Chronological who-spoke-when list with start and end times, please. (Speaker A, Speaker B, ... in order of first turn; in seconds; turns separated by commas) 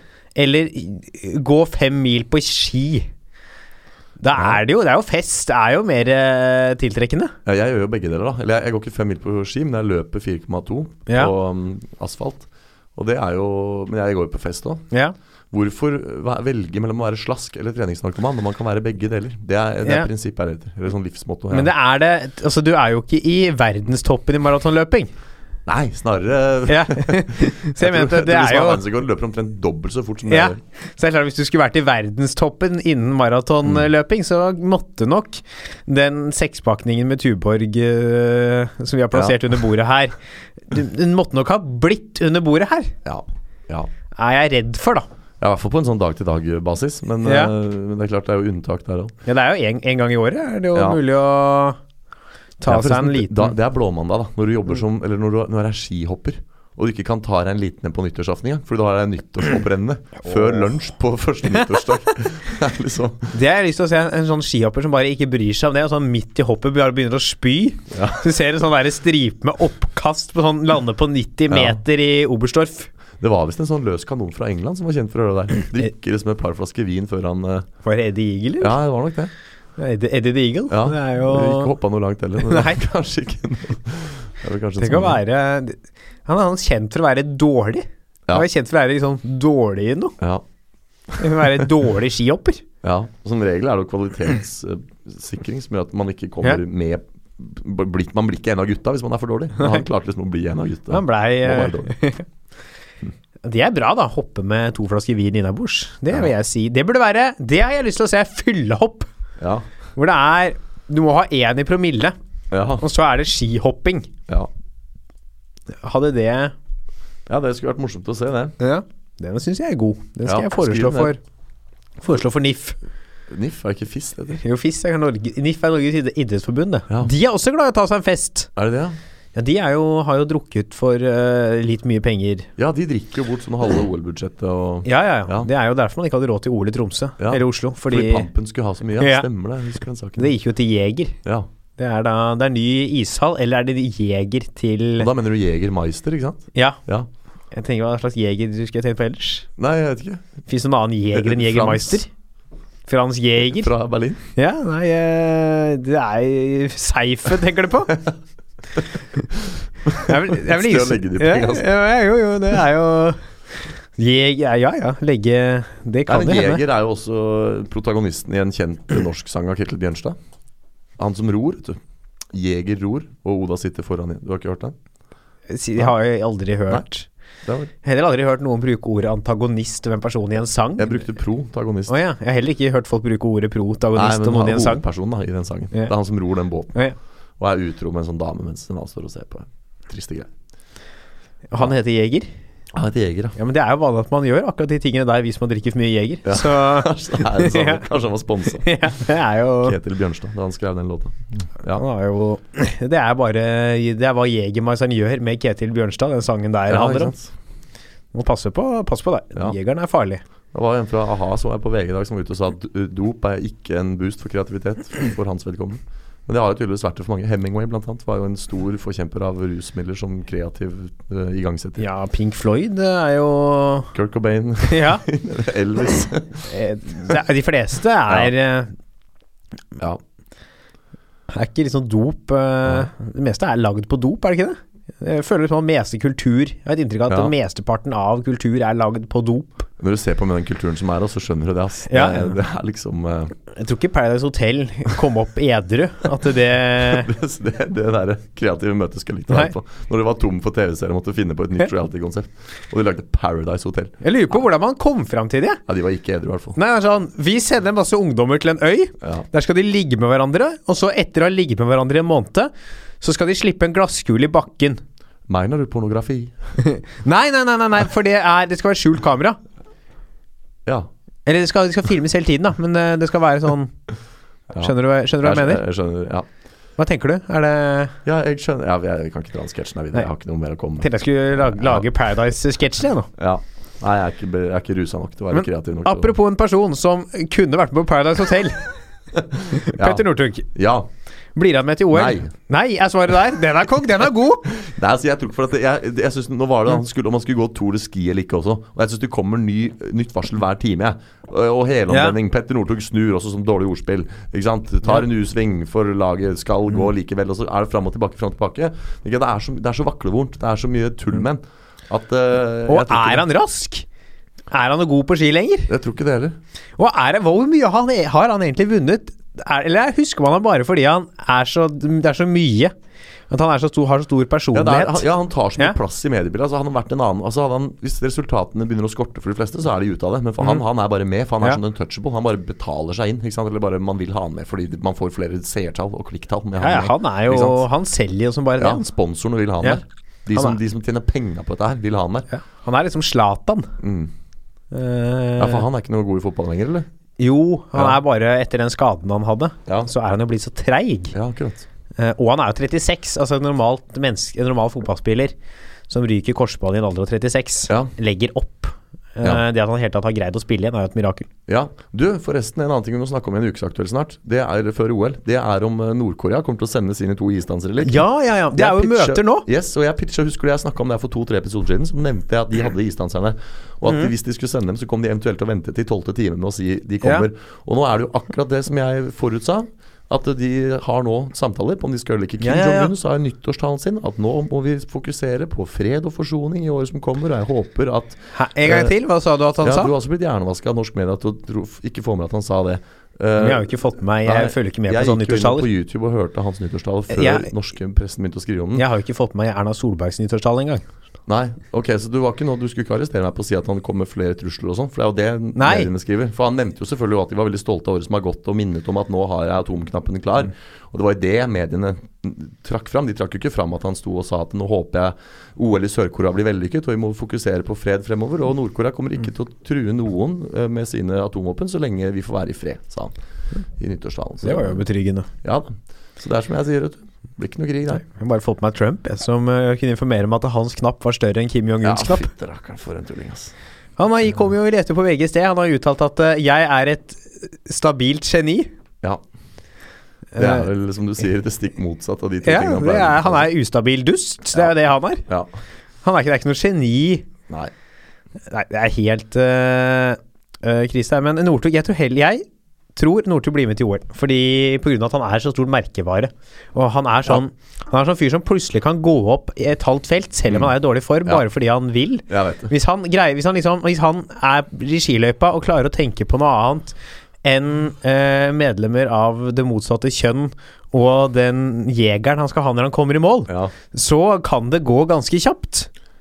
Speaker A: 0.3-3.1, Speaker A: 4.2-7.3, Speaker B: 7.5-14.8, Speaker B: 15.5-21.7, Speaker A: 19.8-20.1, Speaker A: 21.5-25.1, Speaker B: 25.6-30.6, Speaker A: 26.7-28.8, Speaker A: 30.3-40.1, Speaker B: 39.1-39.4, Speaker A: 40.7-42.9, Speaker B: 43.0-43.9, Speaker A: 44.1-45.1, Speaker B: 45.4-49.1, Speaker A: 47.2-47.5, Speaker A: 49.2-51.8, Speaker B: 50.7-51.0, Speaker A: 52.6-53.5, Speaker B: 52.7-63.3, Speaker A: 63.3-72.9, Speaker B: 67.9-68.2, Speaker B: 71.5-71.8, Speaker B: 73.2-77.7, Speaker A: 77.8-78.8, Speaker B: 78.6-79.3, Speaker A: 79.8-81.7, Speaker B: 80.7-85.2, Speaker A: 82.4-82.8, Speaker A: 84.8-90.2, Speaker B: 90.2-90.4, Speaker B: 91.1-91.7, Speaker A: 91.2-92.6, Speaker B: 92.8-101.9, Speaker A: 100.9-102.2, Speaker A: 103.4-109.1, Speaker B: 109.4-109.7, Speaker A: 110.0-112.1, Speaker B: 112.5-112.8, Speaker A: 112.8-114.1, Speaker A: 115.8-116.5, Speaker B: 117.3-118.5, Speaker A: 118.6-121.2, Speaker B: 120.2-121.1, Speaker A: 122.0-122.8, Speaker B: 123.3-124.4, Speaker A: 124.4-128.5, Speaker B: 128.6-129.0, Speaker A: 129.3-132.5, Speaker B: 132.6-135.5, Speaker A: 134.8-138.3, Speaker B: 137.2-140.3, Speaker A: 139.0-139.3, Speaker A: 140.2-141.2, Speaker A: 141.8-145.1, Speaker B: 145.0-147.1, Speaker A: 146.5-146.8, Speaker A: 147.5-149.5, Speaker B: 149.6-150.3, Speaker A: 150.5-152.1, Speaker B: 151.1-152.0, Speaker A: 152.9-153.7, Speaker B: 153.5-154.2, Speaker A: 154.3-158.0, Speaker B: 159.3-161.7, Speaker A: 160.0-163.2, Speaker A: 164.0-166.6, Speaker B: 166.1-170.2, Speaker B: 171.0-171.8, Speaker B: 172.3-174.8, Speaker A: 175.5-177.1, Speaker B: 177.4-177.7, Speaker A: 177.8-181.1, Speaker B: 180.8-181.9, Speaker A: 181.9-184.8, Speaker B: 183.9-186.7, Speaker B: 187.4-190.3, Speaker A: 191.5-192.3, Speaker B: 192.7-193.3, Speaker A: 193.3-197.8, Speaker B: 196.2-198.7, Speaker A: 198.6-199.8, Speaker B: 199.6-201.8, Speaker A: 201.7-207.1, Speaker B: 206.7-207.3, Speaker A: 208.1-210.2, Speaker B: 210.5-221.8, Speaker A: 221.8-223.9, Speaker B: 223.9-226.5, Speaker A: 224.6-225.0, Speaker A: 226.5-228.7, Speaker A: 231.3-239.7, Speaker B: 239.8-243.3, Speaker A: 241.9-242.4, Speaker A: 243.5-247.1, Speaker B: 246.8-254.0, Speaker A: 254.0-255.6, Speaker B: 255.7-256.6, Speaker A: 256.5-264.8, Speaker B: 265.3-266.3, Speaker A: 266.6-269.4, Speaker A: 271.2-273.7, Speaker B: 274.5-276.3, Speaker A: 274.6-275.6, Speaker A: 276.8-278.0, Speaker B: 278.0-280.9, Speaker A: 280.8-283.1, Speaker B: 281.6-281.8, Speaker B: 283.2-286.1, Speaker A: 285.3-288.8, Speaker B: 289.1-290.9, Speaker A: 289.5-290.5, Speaker A: 291.3-294.5, Speaker B: 291.9-292.3, Speaker B: 294.5-313.2, Speaker A: 301.9-302.1, Speaker A: 312.7-313.9, Speaker A: 314.5-315.7, Speaker B: 315.7-316.4, Speaker A: 316.8-322.7, Speaker A: 323.3-325.1, Speaker B: 324.5-337.7, Speaker A: 336.6-338.8, Speaker B: 338.6-342.3, Speaker A: 340.3-340.6, Speaker A: 342.3-343.7, Speaker B: 343.8-344.1, Speaker A: 344.7-345.6, Speaker B: 345.4-346.9, Speaker A: 347.2-351.1, Speaker B: 351.1-351.6, Speaker A: 352.0-355.3, Speaker A: 355.9-361.3, Speaker B: 361.5-388.9, Speaker A: 367.8-369.5, Speaker A: 382.4-382.9, Speaker A: 388.3-389.9, Speaker B: 389.6-393.7, Speaker A: 393.4-395.7, Speaker B: 394.2-398.8, Speaker A: 397.1-397.5, Speaker A: 398.7-400.8, Speaker B: 401.3-423.1, Speaker A: 405.6-405.9, Speaker B: 423.8-424.8, Speaker A: 424.4-425.3, Speaker B: 425.4-428.0, Speaker A: 427.9-432.3, Speaker B: 431.8-433.5, Speaker A: 434.0-438.7, Speaker A: 440.3-440.7, Speaker B: 440.4-443.5, Speaker A: 442.4-445.2, Speaker A: 446.0-447.3, Speaker A: 448.5-452.4, Speaker A: 452.9-475.9, Speaker B: 462.3-462.7